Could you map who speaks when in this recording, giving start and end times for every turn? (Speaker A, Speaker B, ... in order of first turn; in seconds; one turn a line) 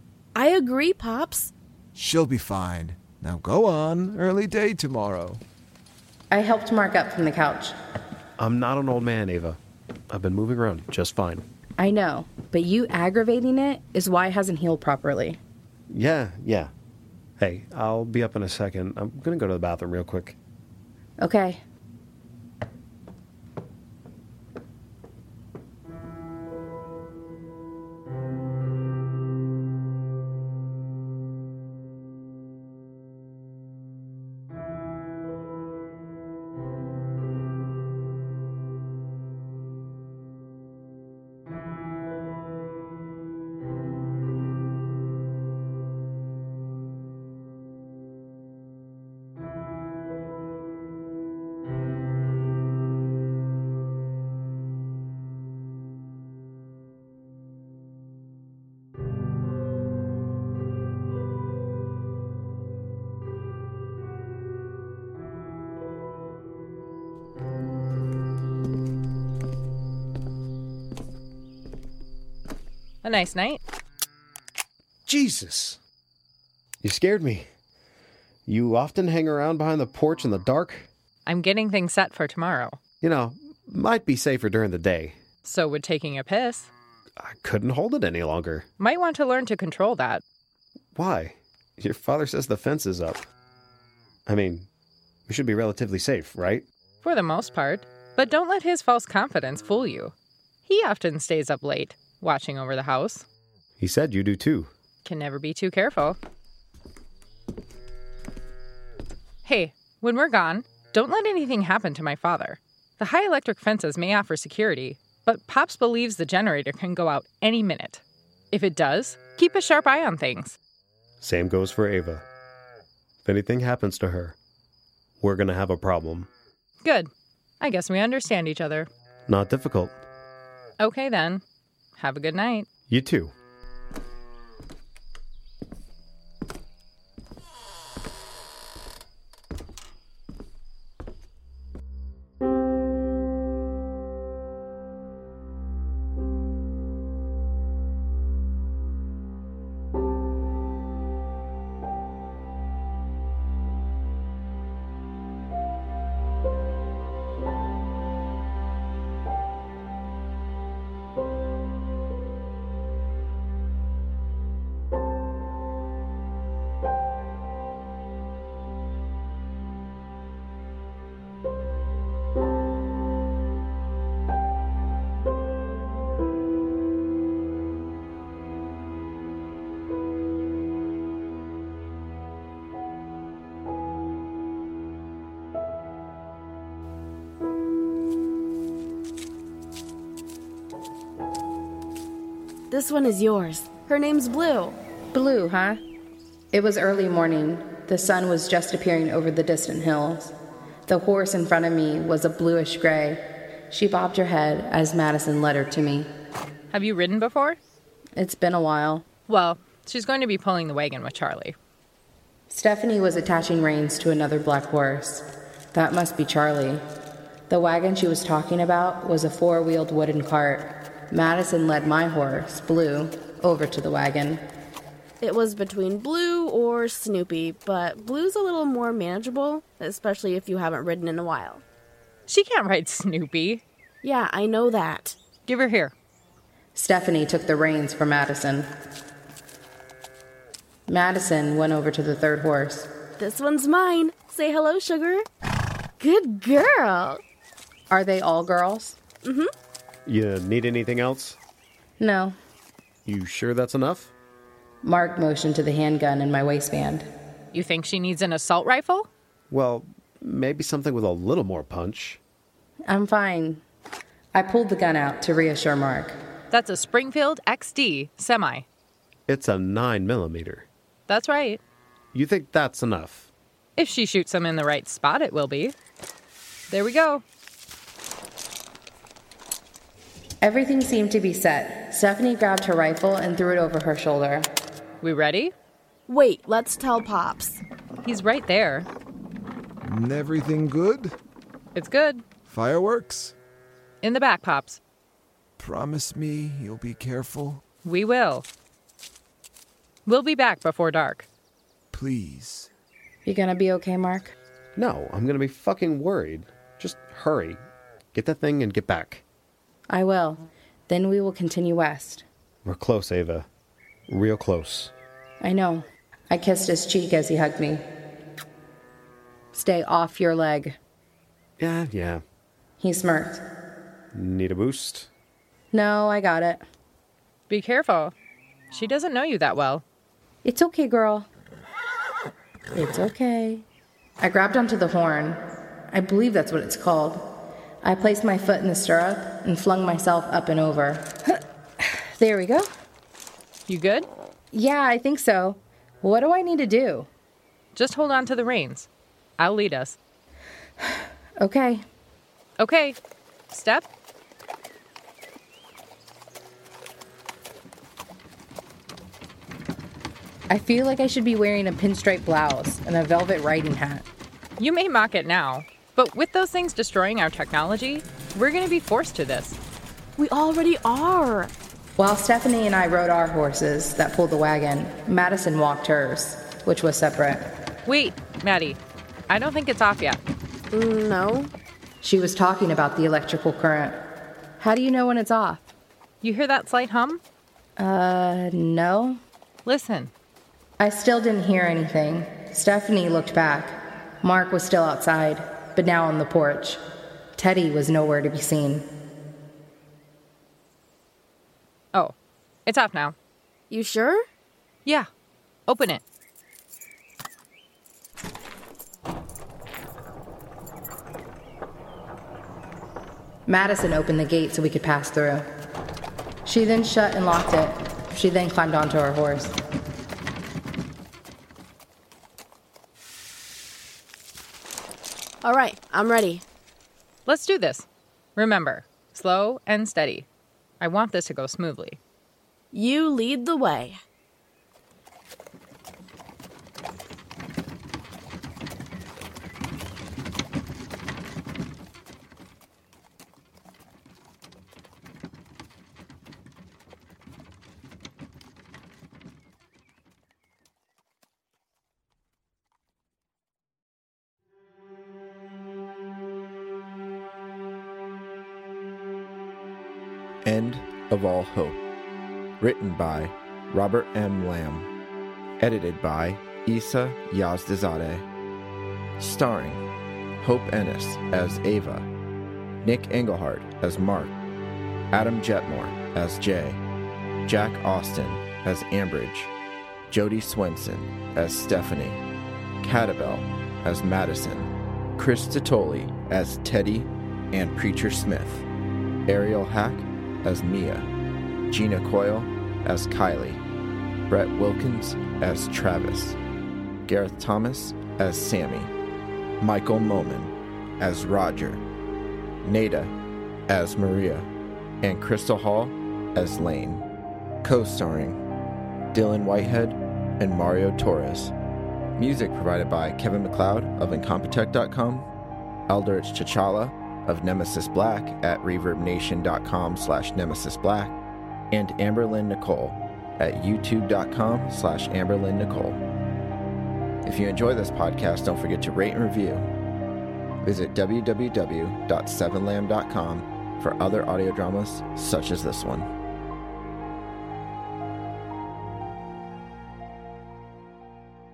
Speaker A: 0.3-1.5
Speaker B: 1.9-5.4
Speaker C: 6.3-7.8
Speaker D: 8.4-9.6
Speaker D: 10.1-11.5
Speaker C: 11.8-15.4
Speaker D: 15.9-16.7
Speaker D: 17.4-20.4
Speaker C: 21.2-21.6
Speaker E: 73.0-73.6
Speaker D: 75.1-75.8
Speaker D: 76.8-77.5
Speaker D: 78.5-80.9
Speaker E: 81.3-82.8
Speaker D: 83.0-85.2
Speaker E: 85.4-86.7
Speaker D: 87.2-88.7
Speaker E: 88.8-90.2
Speaker D: 91.0-93.3
Speaker D: 94.3-94.7
Speaker D: 95.3-96.7
Speaker E: 97.0-100.1
Speaker E: 100.7-103.2
Speaker D: 103.8-104.7
Speaker E: 105.0-106.2
Speaker E: 109.4-118.0
Speaker E: 118.5-120.6
Speaker D: 121.2-122.2
Speaker D: 123.2-124.4
Speaker D: 125.2-126.3
Speaker E: 126.8-127.1
Speaker E: 127.6-128.9
Speaker D: 129.3-130.0
Speaker E: 130.8-131.4
Speaker E: 132.0-132.7
Speaker D: 132.9-133.3
Speaker A: 192.7-194.8
Speaker C: 195.1-195.8
Speaker C: 196.5-200.3
Speaker C: 200.9-206.1
Speaker E: 206.7-207.6
Speaker C: 208.2-209.1
Speaker E: 209.3-211.6
Speaker C: 212.5-216.8
Speaker C: 217.5-224.4
Speaker A: 225.2-231.6
Speaker E: 232.3-233.6
Speaker A: 234.0-235.2
Speaker E: 235.5-235.9
Speaker C: 236.8-238.7
Speaker C: 240.9-242.9
Speaker A: 243.2-245.3
Speaker A: 246.0-247.2
Speaker C: 247.9-249.0
Speaker A: 249.2-249.5
Speaker D: 250.1-251.4
Speaker C: 252.0-252.3
Speaker D: 253.1-254.1
Speaker C: 254.8-257.1
Speaker E: 257.5-259.1
Speaker D: 259.5-262.2
Speaker C: 262.9-263.6
Speaker C: 264.4-266.2
Speaker E: 266.5-268.6
Speaker D: 269.3-270.7
Speaker E: 271.1-271.6
Speaker D: 272.1-273.3
Speaker E: 273.8-275.8
Speaker E: 276.7-277.2
Speaker C: 280.4-284.5
Speaker E: 285.0-285.5
Speaker A: 286.1-287.6
Speaker E: 288.0-288.9
Speaker B: 289.8-291.2
Speaker E: 291.8-292.2
Speaker B: 292.5-293.4
Speaker E: 294.0-294.8
Speaker B: 295.6-297.6
Speaker E: 297.8-298.4
Speaker E: 300.1-301.3
Speaker B: 301.9-302.7
Speaker C: 303.2-304.3
Speaker D: 304.8-309.2
Speaker C: 309.9-312.2
Speaker D: 312.6-313.5
Speaker D: 314.1-314.9
Speaker C: 315.4-317.8
Speaker C: 319.5-320.8
Speaker D: 321.6-322.2
Speaker C: 322.8-323.4
Speaker D: 324.1-325.1
Speaker C: 325.7-326.6
Speaker E: 327.5-328.1
Speaker E: 328.7-329.8
Speaker C: 330.4-331.3
Speaker C: 332.7-333.6
Speaker C: 334.2-335.4
Speaker C: 335.9-337.3
Speaker C: 337.8-342.7
Speaker E: 343.7-344.1
Speaker C: 344.5-347.1
Speaker E: 347.8-348.9
Speaker E: 349.4-350.0
Speaker C: 350.9-351.9
Speaker E: 352.6-353.0
Speaker E: 353.5-353.9
Speaker C: 360.5-364.1
Speaker E: 364.6-369.6
Speaker A: 370.2-371.5
Speaker C: 372.0-377.5
Speaker E: 377.9-380.2
Speaker A: 380.7-381.5
Speaker C: 382.0-384.0
Speaker C: 384.6-385.7
Speaker E: 386.2-387.2
Speaker C: 387.8-389.2
Speaker E: 389.6-390.1
Speaker C: 390.8-396.8
Speaker C: 397.4-398.9
Speaker E: 402.7-403.1
Speaker A: 403.7-404.2
Speaker E: 405.7-406.0
Speaker C: 413.5-415.4
Speaker C: 416.4-419.6
Speaker A: 425.4-426.4
Speaker E: 427.3-430.3
Speaker E: 430.8-432.0
Speaker A: 432.7-434.0
Speaker F: 460.4-461.8
Speaker F: 462.6-464.9
Speaker F: 465.6-468.3
Speaker F: 469.2-469.8
Speaker F: 470.4-472.1
Speaker F: 472.8-474.3
Speaker F: 475.1-476.8
Speaker F: 477.5-479.5
Speaker F: 480.1-482.2
Speaker F: 482.8-488.7
Speaker F: 489.3-491.1
Speaker F: 491.7-493.6
Speaker F: 494.3-496.4
Speaker F: 497.1-498.9
Speaker F: 499.6-501.8
Speaker F: 502.6-503.1
Speaker F: 503.7-504.5
Speaker F: 505.0-507.1
Speaker F: 507.6-508.4
Speaker F: 509.1-511.5
Speaker F: 512.2-515.3
Speaker F: 515.9-521.2
Speaker F: 521.7-526.0
Speaker F: 527.2-529.7
Speaker F: 530.6-536.1